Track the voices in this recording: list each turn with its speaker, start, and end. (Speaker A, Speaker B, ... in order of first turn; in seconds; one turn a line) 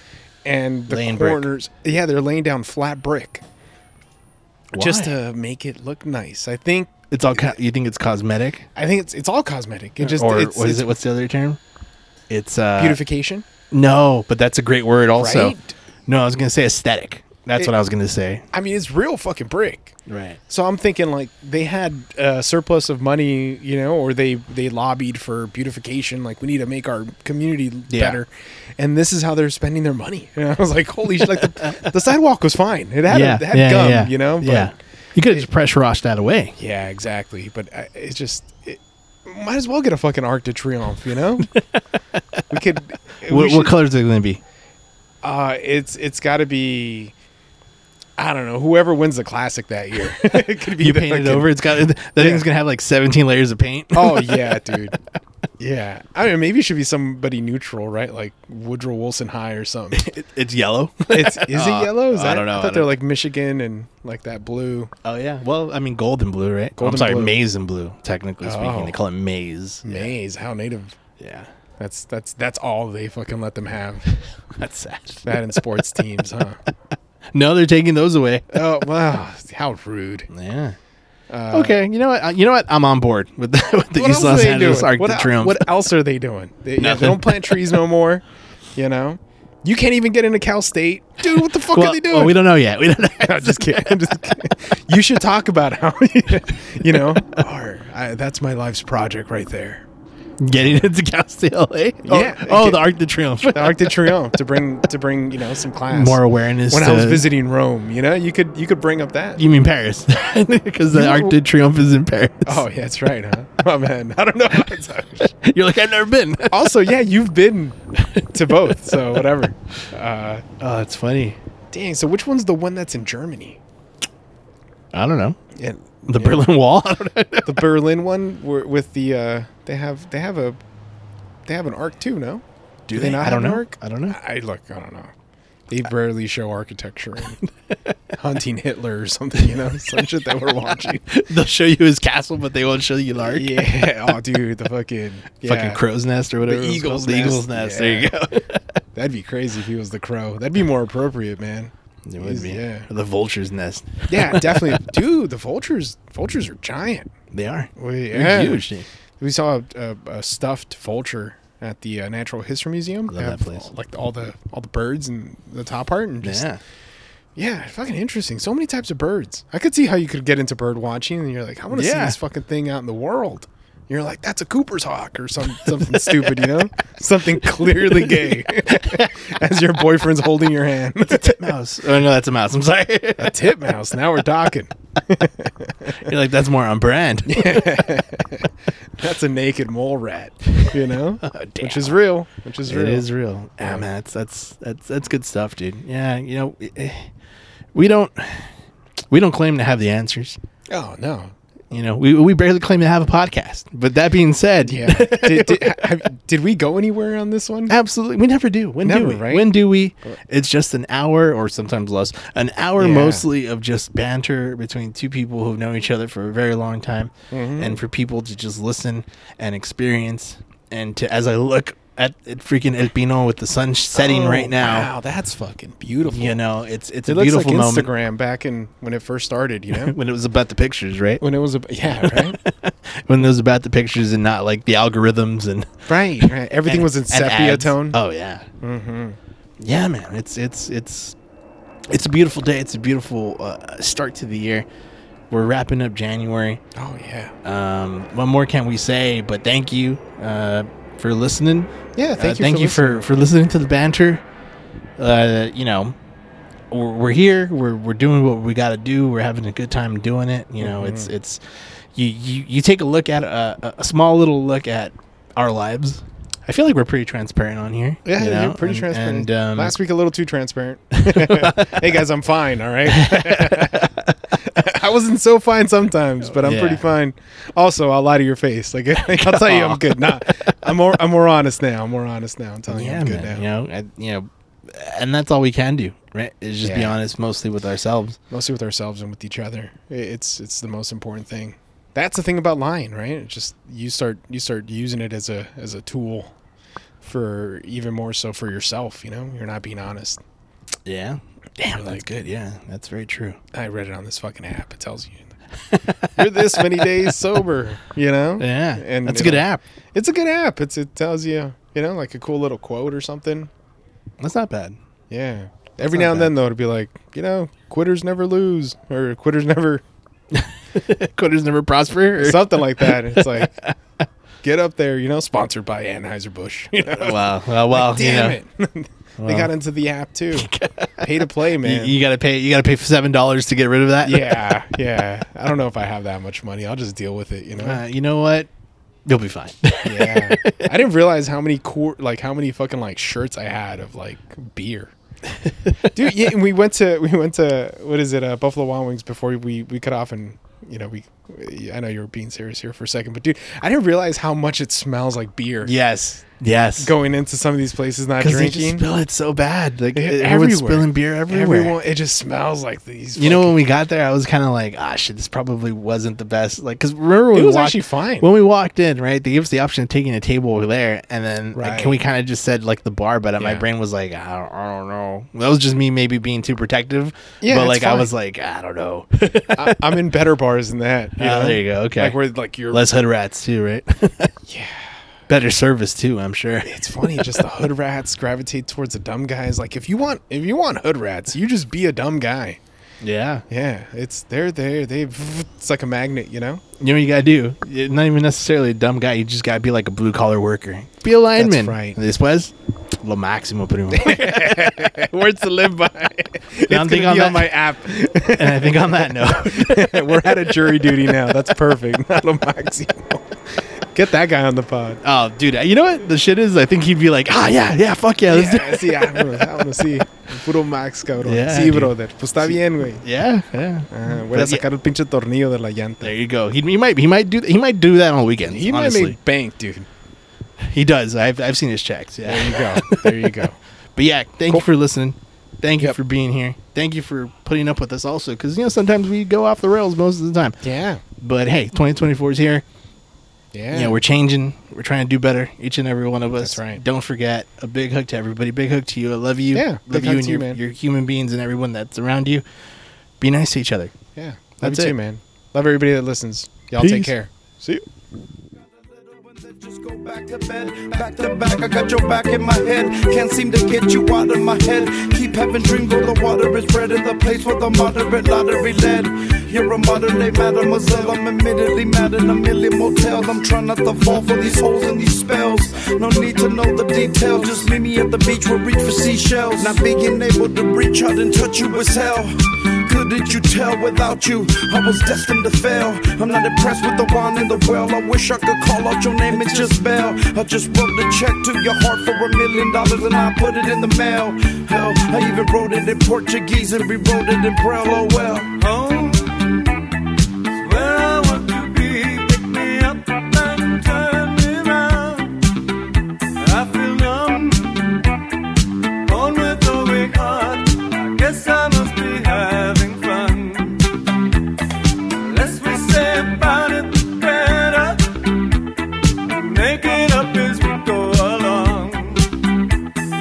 Speaker A: 0.5-3.4
Speaker B: 0.9-1.5
Speaker B: 4.7-5.1
Speaker A: 4.8-7.5
Speaker B: 7.1-8.7
Speaker A: 8.8-10.9
Speaker B: 10.0-11.6
Speaker B: 12.3-13.0
Speaker A: 12.8-13.5
Speaker B: 13.7-15.6
Speaker A: 15.2-15.7
Speaker B: 16.1-18.4
Speaker A: 18.5-34.7
Speaker B: 20.1-20.4
Speaker B: 27.9-28.2
Speaker B: 31.2-31.9
Speaker B: 33.1-36.6
Speaker A: 36.6-41.5
Speaker B: 41.5-42.4
Speaker A: 42.5-43.7
Speaker B: 43.3-44.4
Speaker A: 45.2-47.1
Speaker A: 48.2-51.6
Speaker B: 50.1-55.2
Speaker A: 52.2-52.5
Speaker A: 53.9-55.0
Speaker A: 55.6-60.1
Speaker B: 59.9-62.9
Speaker A: 61.1-64.9
Speaker B: 65.0-70.1
Speaker A: 66.8-67.4
Speaker A: 68.4-69.0
Speaker A: 69.8-71.0
Speaker B: 71.2-71.5
Speaker A: 71.8-74.2
Speaker B: 74.5-75.4
Speaker A: 75.2-76.6
Speaker B: 77.3-78.6
Speaker A: 78.5-80.3
Speaker B: 80.3-80.8
Speaker A: 81.3-81.8
Speaker B: 81.5-85.7
Speaker A: 84.0-88.2
Speaker B: 86.8-87.6
Speaker A: 88.8-92.4
Speaker B: 91.3-94.2
Speaker A: 93.2-99.9
Speaker B: 100.4-104.2
Speaker A: 102.0-109.4
Speaker B: 105.9-107.3
Speaker B: 109.4-112.7
Speaker A: 110.9-111.4
Speaker A: 112.5-115.3
Speaker B: 115.4-116.7
Speaker A: 116.5-120.5
Speaker B: 118.0-119.2
Speaker B: 120.6-121.4
Speaker A: 121.7-123.6
Speaker B: 124.9-125.4
Speaker A: 125.6-126.5
Speaker B: 126.1-127.7
Speaker A: 127.5-130.6
Speaker A: 131.5-135.1
Speaker B: 132.9-134.2
Speaker A: 135.7-137.4
Speaker B: 137.4-137.9
Speaker A: 138.2-141.1
Speaker B: 139.5-144.2
Speaker A: 143.2-145.8
Speaker B: 145.4-148.8
Speaker A: 146.4-148.2
Speaker A: 148.9-152.9
Speaker B: 152.1-154.8
Speaker A: 154.1-157.1
Speaker B: 157.3-158.9
Speaker A: 157.8-158.7
Speaker A: 159.2-166.5
Speaker B: 163.1-163.7
Speaker B: 166.2-166.6
Speaker A: 167.4-181.6
Speaker B: 171.7-172.2
Speaker B: 175.5-176.6
Speaker B: 177.4-179.1
Speaker B: 181.0-183.7
Speaker A: 183.2-186.1
Speaker B: 186.0-187.8
Speaker A: 187.3-193.1
Speaker B: 191.2-192.0
Speaker B: 192.7-197.1
Speaker A: 193.6-193.9
Speaker B: 197.7-198.5
Speaker B: 199.1-200.4
Speaker A: 200.7-201.3
Speaker B: 201.7-205.9
Speaker A: 204.7-207.8
Speaker B: 207.7-224.9
Speaker A: 208.8-209.7
Speaker A: 212.8-213.3
Speaker A: 217.3-217.8
Speaker A: 223.9-226.4
Speaker B: 226.1-227.9
Speaker A: 227.1-229.9
Speaker B: 229.7-231.2
Speaker A: 231.2-232.4
Speaker B: 232.0-238.5
Speaker A: 235.9-238.0
Speaker A: 238.6-239.2
Speaker B: 239.6-241.2
Speaker B: 241.9-244.7
Speaker B: 245.3-246.6
Speaker A: 246.8-247.3
Speaker B: 247.4-254.2
Speaker A: 252.0-253.1
Speaker B: 255.0-256.0
Speaker B: 256.7-269.8
Speaker A: 260.6-261.1
Speaker A: 268.1-283.5
Speaker B: 271.0-271.9
Speaker B: 272.9-274.2
Speaker B: 276.3-276.9
Speaker B: 279.0-280.8
Speaker B: 282.7-288.2
Speaker A: 286.6-287.0
Speaker A: 288.3-296.3
Speaker A: 297.0-300.2
Speaker B: 300.9-303.4
Speaker A: 301.7-302.1
Speaker A: 303.5-305.4
Speaker B: 305.7-307.1
Speaker A: 306.0-313.5
Speaker B: 308.4-309.6
Speaker B: 314.2-314.8
Speaker A: 315.1-319.8
Speaker B: 315.9-316.3
Speaker B: 320.3-324.0
Speaker A: 322.2-323.6
Speaker A: 324.4-332.0
Speaker B: 326.8-328.4
Speaker B: 329.2-329.5
Speaker B: 330.3-334.6
Speaker A: 334.0-337.8
Speaker B: 337.6-338.5
Speaker B: 339.1-340.7
Speaker A: 339.8-344.9
Speaker A: 345.8-355.7
Speaker B: 355.6-356.9
Speaker A: 356.8-358.9
Speaker B: 358.2-361.8
Speaker A: 359.9-363.6
Speaker B: 363.2-380.0
Speaker A: 367.3-368.3
Speaker A: 371.6-372.0
Speaker A: 373.4-373.7
Speaker A: 377.4-378.1
Speaker A: 379.5-382.9
Speaker B: 381.2-382.2
Speaker B: 382.7-384.3
Speaker A: 384.5-384.9
Speaker B: 385.3-387.4
Speaker A: 386.6-392.6
Speaker B: 393.0-393.4
Speaker A: 393.5-396.6
Speaker B: 396.8-405.2
Speaker A: 401.4-402.0
Speaker A: 403.9-415.0
Speaker B: 406.6-407.6
Speaker B: 408.2-411.3
Speaker B: 415.0-419.9
Speaker A: 418.3-423.0
Speaker B: 421.2-424.6
Speaker A: 423.9-426.1
Speaker B: 426.0-429.2
Speaker A: 428.5-429.9
Speaker B: 430.6-440.6
Speaker A: 432.2-433.6
Speaker A: 440.6-441.0
Speaker B: 441.2-442.6
Speaker A: 443.5-444.0
Speaker B: 443.7-452.4
Speaker A: 446.4-446.8
Speaker A: 449.5-450.6
Speaker B: 453.2-453.9
Speaker A: 454.2-457.3
Speaker B: 454.6-454.9
Speaker B: 456.8-457.8
Speaker C: 458.6-498.5
Speaker D: 489.3-489.8
Speaker D: 498.6-505.4
Speaker D: 506.4-508.1
Speaker D: 509.0-513.9
Speaker D: 515.1-518.3
Speaker D: 519.2-522.4